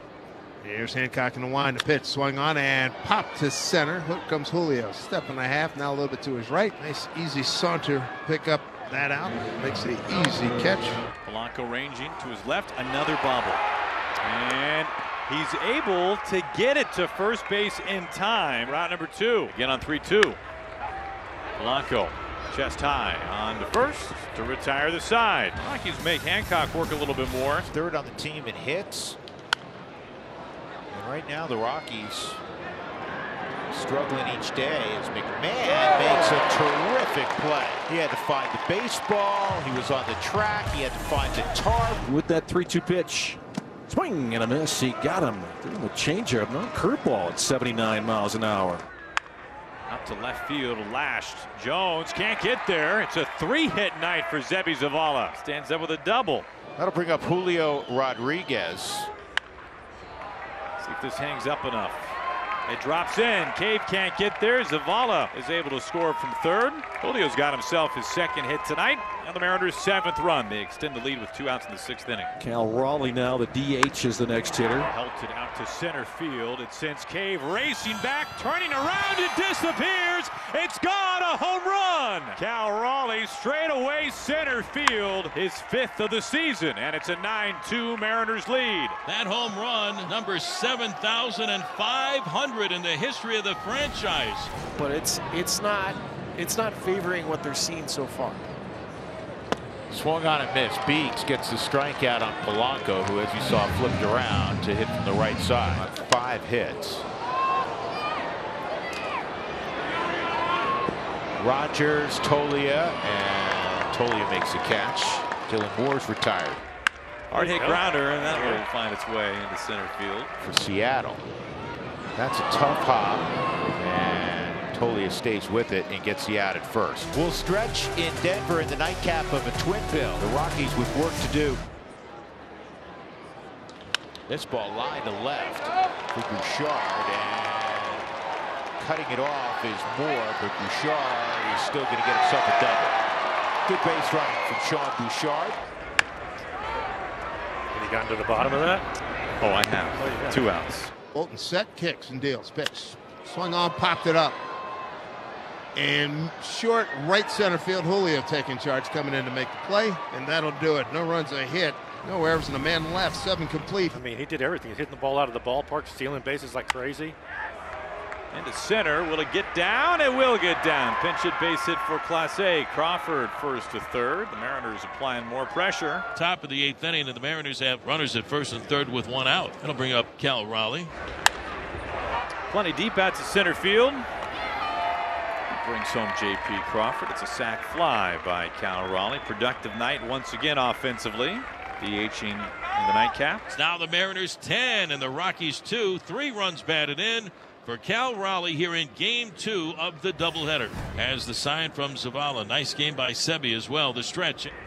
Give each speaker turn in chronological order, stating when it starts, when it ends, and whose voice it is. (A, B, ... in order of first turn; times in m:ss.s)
0:00.6-0:11.0 A
0:11.2-0:13.6 B
0:14.2-0:20.4 B
0:21.6-0:27.7 B
0:27.7-0:29.2 C
0:30.9-0:32.4 C
0:33.7-0:42.0 C
0:42.0-0:48.8 D
0:49.9-0:56.4 B
0:56.8-0:59.1 C
1:00.8-1:02.1 B
1:02.7-1:12.3 B
1:12.4-1:14.9 D
1:14.8-1:29.0 B
1:29.0-1:34.6 E
1:34.7-1:38.4 F
1:39.9-1:47.0 C
1:51.4-1:56.6 C
1:57.3-2:00.3 B
2:00.4-2:01.2 C
2:02.1-2:11.6 C
2:14.3-2:18.1 C
2:18.8-2:23.0 C
2:23.6-2:25.6 C
2:27.7-2:28.8 G
2:29.4-2:30.9 B
2:30.0-2:30.3 G
2:31.1-2:34.4 A
2:35.7-2:44.0 A
2:43.9-2:47.1 G
2:48.3-2:56.0 B
2:56.1-3:00.9 E
3:02.5-3:04.1 B
3:05.5-3:13.4 B
3:13.5-3:24.5 E